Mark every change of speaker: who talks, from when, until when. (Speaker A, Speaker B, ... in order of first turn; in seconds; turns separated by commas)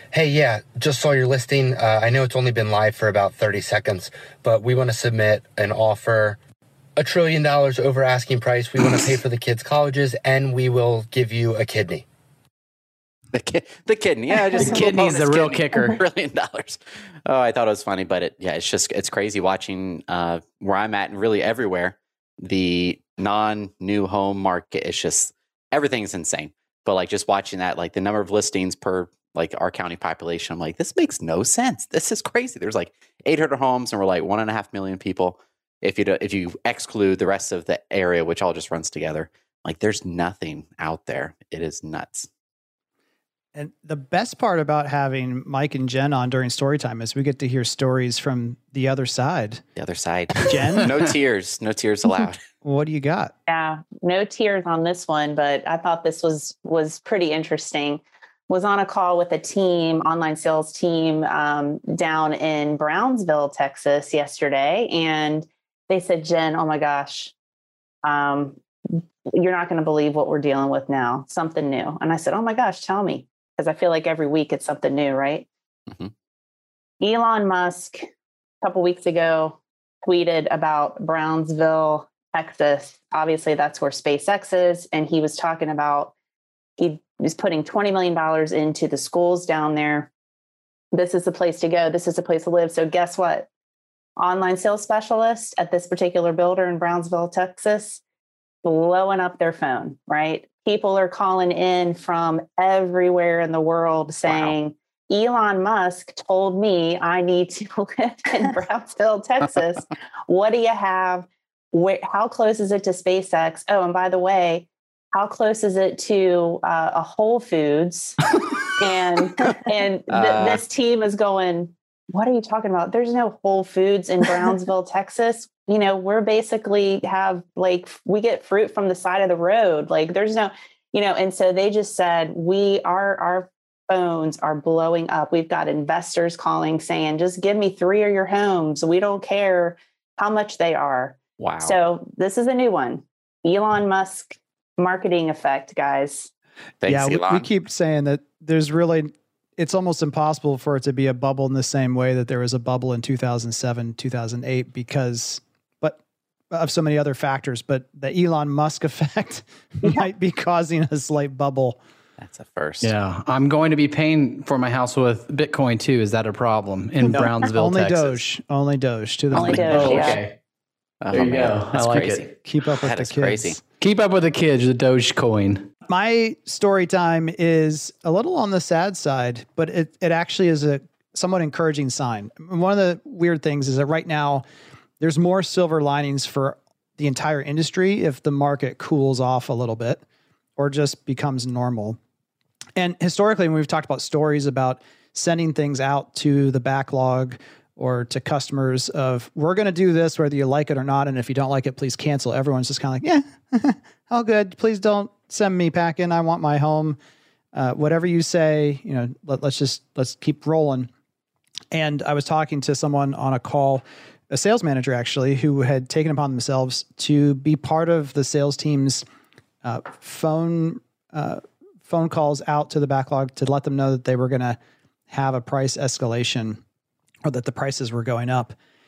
Speaker A: 0.1-6.4, Speaker A: 7.0-12.1, Speaker B: 13.3-42.3, Speaker C: 14.6-16.0, Speaker D: 43.5-49.6, Speaker B: 49.8-52.4, Speaker D: 50.4-50.9, Speaker D: 52.6-53.3, Speaker E: 53.5-67.3, Speaker E: 68.0-75.5, Speaker E: 77.0-78.1, Speaker E: 78.6-86.1, Speaker E: 86.8-90.1, Speaker E: 90.9-93.5, Speaker E: 94.2-98.0, Speaker E: 98.6-146.3, Speaker B: 104.3-104.5, Speaker B: 120.1-120.6, Speaker B: 141.4-141.8, Speaker B: 146.8-147.5, Speaker D: 146.9-156.0, Speaker D: 156.5-161.8, Speaker B: 162.2-162.9, Speaker C: 162.8-168.2, Speaker D: 167.1-169.9, Speaker E: 169.3-170.2, Speaker B: 169.4-170.2, Speaker C: 169.7-170.3, Speaker B: 171.0-173.6, Speaker C: 171.1-172.3, Speaker D: 172.3-173.6, Speaker C: 173.8-175.7, Speaker D: 175.9-184.4, Speaker D: 185.0-190.0, Speaker D: 190.6-192.0, Speaker D: 192.8-207.0, Speaker D: 207.5-210.9, Speaker D: 211.7-219.1, Speaker D: 219.6-224.6, Speaker D: 225.1-226.6, Speaker D: 227.2-228.6